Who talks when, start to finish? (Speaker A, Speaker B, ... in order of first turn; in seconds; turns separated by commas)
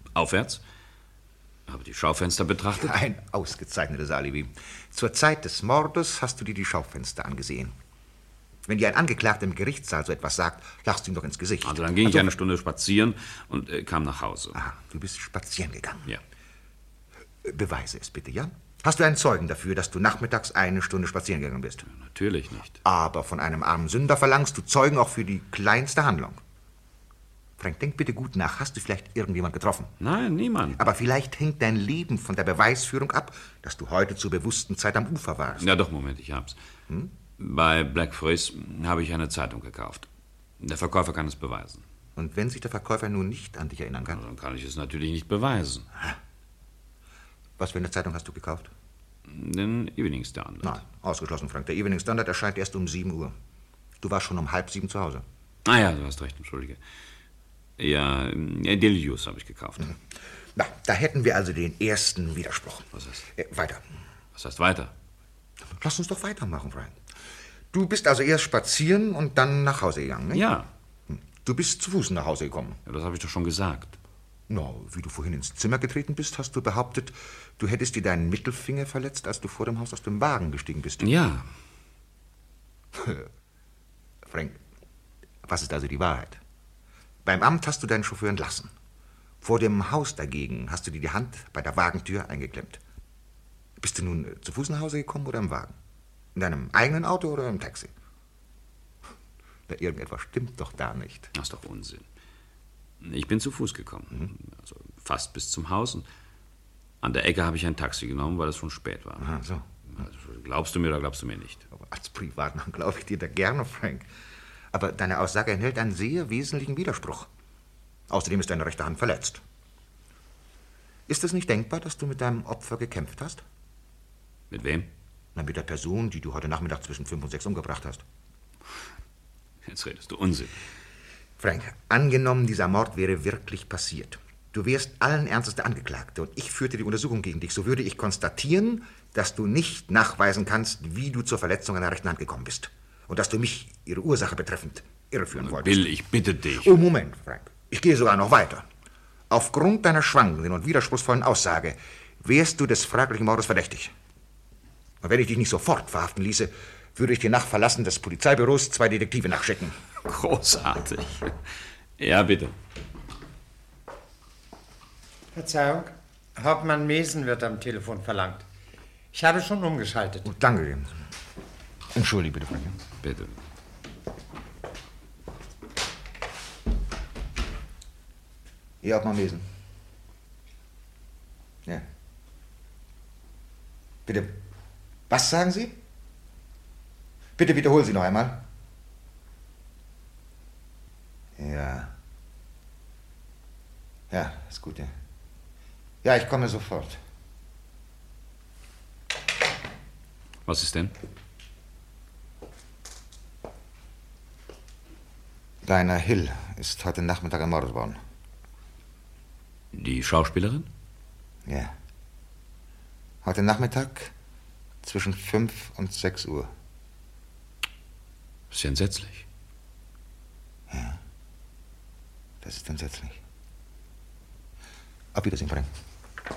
Speaker A: 0.1-0.6, Speaker A: 1.7-3.0, Speaker B: 2.8-7.8, Speaker B: 8.7-12.3, Speaker A: 11.6-14.6, Speaker B: 14.6-16.1, Speaker B: 17.4-21.9, Speaker A: 21.9-22.8, Speaker B: 22.8-26.4, Speaker B: 27.6-29.9, Speaker A: 30.0-30.8, Speaker B: 30.8-35.7, Speaker A: 35.6-36.6, Speaker A: 37.4-40.1, Speaker A: 40.6-41.8, Speaker B: 42.2-44.2, Speaker A: 44.1-45.9, Speaker B: 47.6-48.7, Speaker A: 49.3-50.8, Speaker B: 50.6-53.4, Speaker B: 54.0-55.2, Speaker A: 55.7-56.8, Speaker A: 57.8-59.9, Speaker B: 60.5-63.8, Speaker A: 63.0-63.2, Speaker A: 64.3-64.9, Speaker B: 65.8-67.0, Speaker B: 67.7-70.5, Speaker A: 70.3-70.7, Speaker B: 71.1-72.8, Speaker A: 72.9-74.0, Speaker B: 74.5-81.1, Speaker A: 81.0-81.5, Speaker B: 82.9-83.3, Speaker B: 84.3-84.6, Speaker B: 85.5-86.4, Speaker B: 87.2-88.7, Speaker B: 89.4-92.8, Speaker B: 93.8-95.8, Speaker B: 96.3-97.9, Speaker B: 99.7-101.3, Speaker A: 101.3-102.0, Speaker A: 103.0-106.1, Speaker A: 107.0-109.3, Speaker B: 109.2-109.7, Speaker A: 109.9-111.6, Speaker B: 111.7-114.1, Speaker B: 114.7-117.3, Speaker B: 118.1-119.4, Speaker B: 121.1-123.4, Speaker A: 124.5-124.9, Speaker B: 125.3-128.0, Speaker A: 129.7-130.6, Speaker B: 131.4-145.9, Speaker A: 145.3-146.7, Speaker B: 146.6-148.7, Speaker B: 149.3-153.9, Speaker B: 155.0-159.8, Speaker A: 160.1-161.3, Speaker A: 162.0-162.5, Speaker C: 165.3-168.4, Speaker C: 169.1-170.3, Speaker B: 170.3-170.9, Speaker B: 171.9-172.8, Speaker A: 173.0-173.3, Speaker B: 178.8-179.5, Speaker B: 184.1-184.4, Speaker B: 185.1-185.8, Speaker B: 187.4-188.4, Speaker B: 191.4-191.9, Speaker B: 194.1-194.9, Speaker B: 196.0-197.0, Speaker A: 200.5-200.9, Speaker B: 205.6-208.0, Speaker A: 209.7-210.7, Speaker B: 211.5-211.7, Speaker B: 213.2-214.1, Speaker B: 214.8-216.5, Speaker A: 218.5-219.2, Speaker B: 220.7-221.0, Speaker B: 222.4-223.2, Speaker B: 225.1-225.7